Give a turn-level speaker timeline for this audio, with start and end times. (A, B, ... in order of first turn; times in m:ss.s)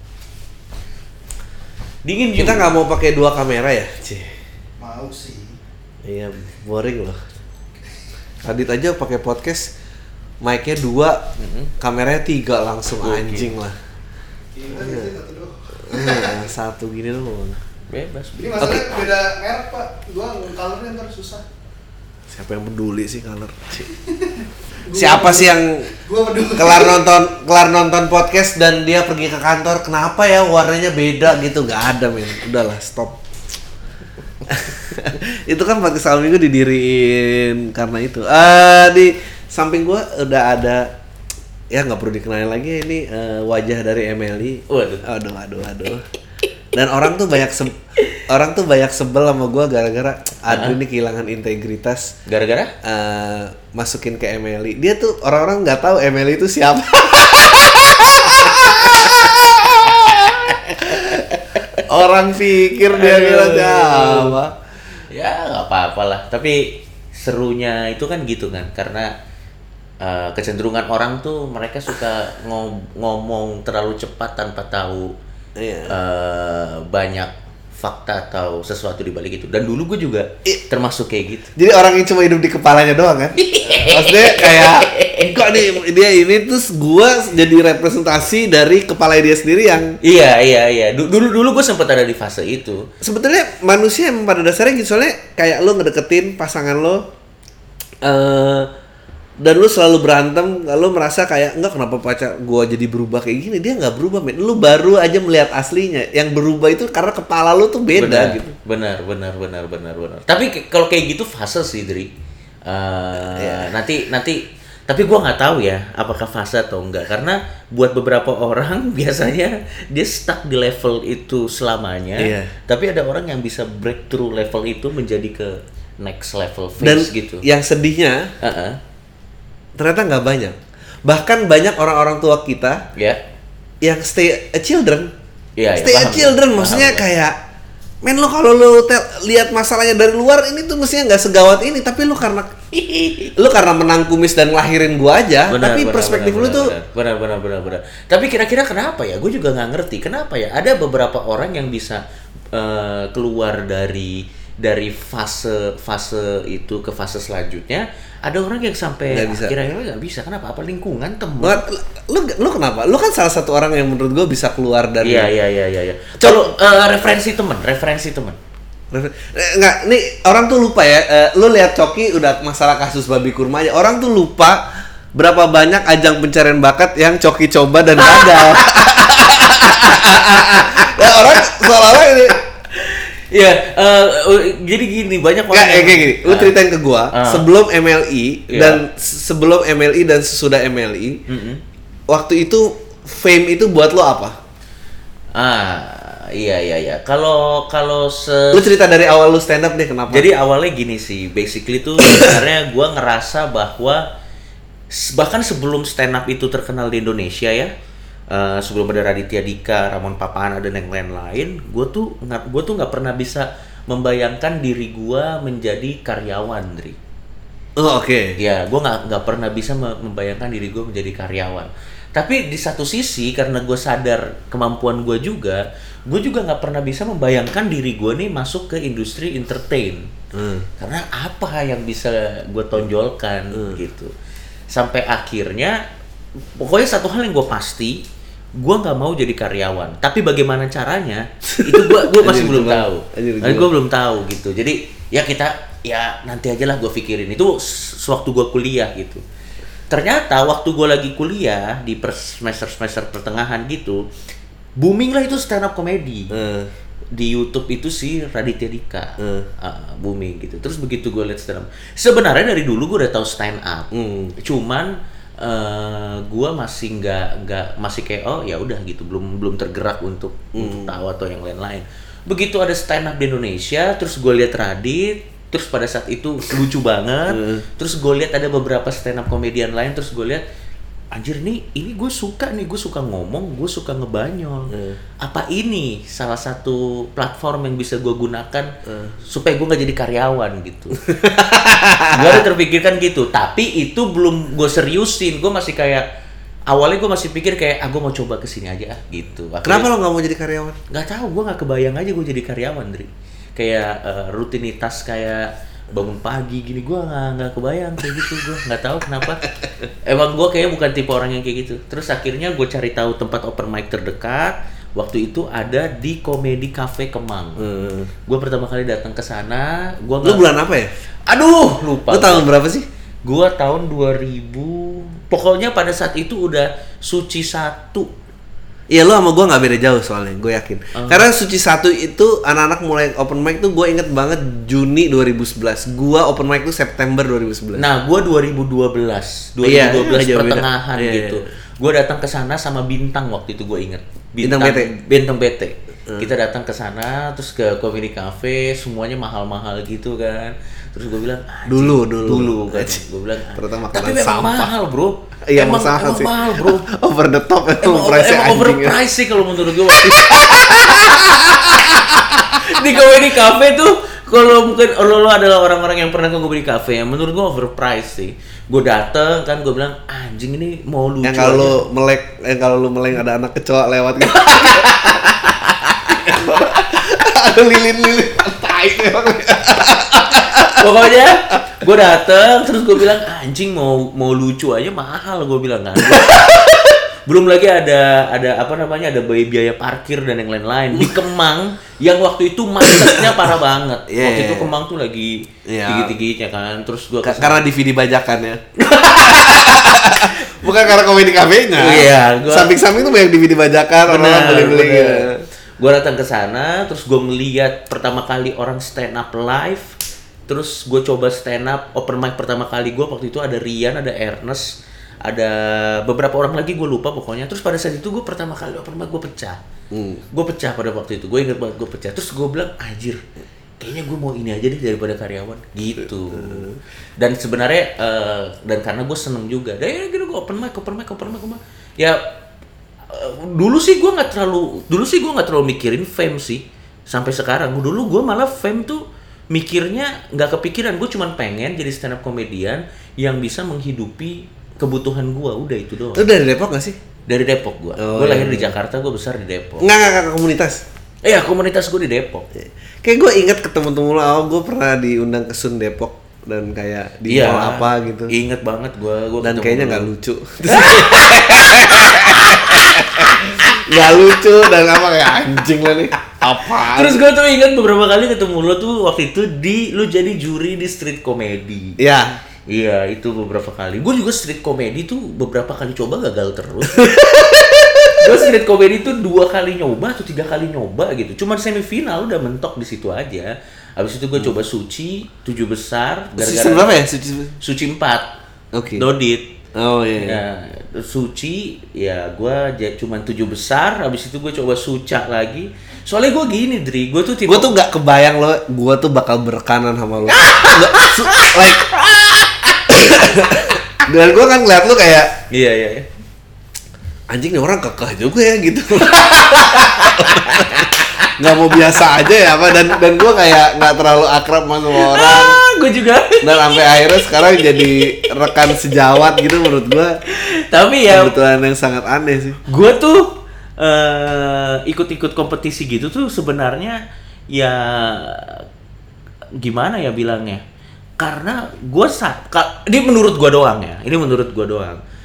0:02.0-0:02.7 A
0:02.4-0:04.3 B
0:04.8-0:05.6 C
0:06.0-0:07.2 B
0:08.4-0:09.7 B
0:10.4-0:11.2 B
0:11.4-0:11.7 A
0:11.8-0:13.8 B
0:13.0-0:13.5 A
0:14.6-0:16.5 C
0:14.7-0:15.1 B
0:15.9-0:17.6 B
0:17.9-0:18.7 A
0:18.4-0:21.4 C
0:18.6-0:19.0 B
0:22.3-0:23.9 B
0:24.1-0:27.1 C
0:24.9-0:25.9 B
0:26.6-0:33.2 B
0:34.5-0:40.9 B
0:41.7-0:46.1 B
0:44.7-0:45.0 A
0:46.7-0:52.2 B
0:50.5-0:50.8 A
0:52.3-0:52.7 A
0:52.8-1:04.6 B
0:59.9-1:01.3 A
1:02.9-1:04.4 A
1:05.1-1:09.1 A
1:10.0-1:15.1 A
1:15.6-1:16.0 B
1:15.9-1:21.5 A
1:21.6-1:30.0 B
1:23.4-1:25.8 A
1:30.0-1:32.9 A
1:33.0-1:37.0 B
1:38.0-1:38.7 B
1:39.4-1:48.6 B
1:48.0-1:52.1 A
1:52.7-2:07.4 A
1:53.2-1:53.7 B
2:02.2-2:02.5 B
2:06.8-2:08.3 B
2:08.4-2:08.8 A
2:09.8-2:12.8 B
2:13.8-2:15.1 B
2:15.6-2:17.1 A
2:15.8-2:17.4 B
2:18.0-2:22.5 B
2:22.7-2:23.3 A
2:23.4-2:26.7 B
2:25.5-2:32.0 A
2:32.5-2:41.6 A
2:39.1-2:39.6 B
2:41.4-2:45.3 B
2:45.0-2:48.4 A
2:48.9-3:02.4 B
2:58.0-2:58.9 A
3:02.7-3:06.6 A
3:05.5-3:11.2 B
3:07.1-3:07.5 A
3:08.5-3:08.8 A
3:11.3-3:11.6 A
3:12.1-3:14.4 B
3:15.4-3:18.6 A
3:18.5-3:20.3 B
3:20.1-3:24.0 A
3:24.9-3:27.7 A
3:28.3-3:37.0 A
3:37.8-3:38.4 B
3:38.4-3:50.1 A
3:50.3-3:50.7 B
3:50.8-3:54.1 A
3:53.5-3:53.8 B
3:54.7-3:55.8 A
3:56.6-3:58.0 A
3:58.6-4:09.2 A
4:01.5-4:03.7 B
4:09.9-4:14.0 A
4:14.8-4:16.3 A
4:16.3-4:16.7 B
4:17.1-4:23.9 A
4:19.2-4:19.5 B
4:23.9-4:24.4 B
4:24.4-4:40.4 A
4:30.6-4:30.9 B
4:37.3-4:37.6 B
4:41.2-4:51.2 A
4:44.7-4:45.0 B
4:48.9-4:49.2 B
4:51.1-4:52.5 B
4:52.1-4:56.0 A
4:56.7-4:59.9 A
4:59.6-5:00.8 B
5:00.9-5:09.4 A
5:10.0-5:17.7 A
5:17.6-5:18.1 B
5:18.3-5:20.4 A
5:20.2-5:20.9 B
5:21.3-5:22.5 A
5:22.1-5:22.9 B
5:23.2-5:28.1 A
5:28.9-5:37.8 B
5:31.0-5:31.3 A
5:37.8-5:56.9 A
5:39.6-5:41.4 B
5:44.4-5:44.9 B
5:51.7-5:54.7 B
5:55.5-5:59.0 B
5:57.8-6:02.0 A
5:59.9-6:02.7 B
6:02.5-6:11.8 A
6:11.2-6:15.5 B
6:14.3-6:16.3 A
6:16.1-6:20.9 B
6:20.6-6:37.7 A
6:26.1-6:26.6 B
6:30.9-6:31.2 B
6:32.9-6:33.4 B
6:34.1-6:34.7 B
6:35.7-6:36.2 B
6:37.2-6:45.4 B
6:38.9-6:40.9 A
6:41.8-6:42.8 A
6:44.1-6:49.9 A
6:50.5-6:54.7 A
6:55.3-6:59.6 A
6:59.9-7:00.2 B
7:00.3-7:03.2 A
7:03.8-7:12.2 A
7:06.3-7:06.8 B
7:13.1-7:26.3 A
7:26.2-7:27.0 B
7:27.3-7:29.9 A
7:28.0-7:28.7 B
7:29.8-7:30.8 B
7:31.2-7:32.5 A
7:32.6-7:38.3 B
7:37.3-7:40.1 A
7:39.4-7:47.2 B
7:40.7-7:43.8 A
7:46.7-7:52.0 A
7:52.0-7:52.4 B
7:52.7-7:57.0 A
7:56.9-7:58.5 B
7:58.2-8:06.9 A
8:06.4-8:07.6 B
8:07.6-8:08.3 A
8:08.7-8:09.1 B
8:09.0-8:09.5 A
8:09.8-8:10.4 B
8:10.2-8:17.7 A
8:17.5-8:21.9 B
8:20.3-8:22.3 A
8:22.9-8:25.3 B
8:25.5-8:26.1 A
8:27.3-8:35.6 B
8:29.0-8:32.0 A
8:35.0-8:38.7 A
8:36.4-8:40.2 B
8:40.3-8:41.3 A
8:41.1-8:42.6 B
8:42.7-8:47.0 A
8:47.5-8:48.6 A
8:49.6-8:50.6 A
8:51.2-8:55.0 A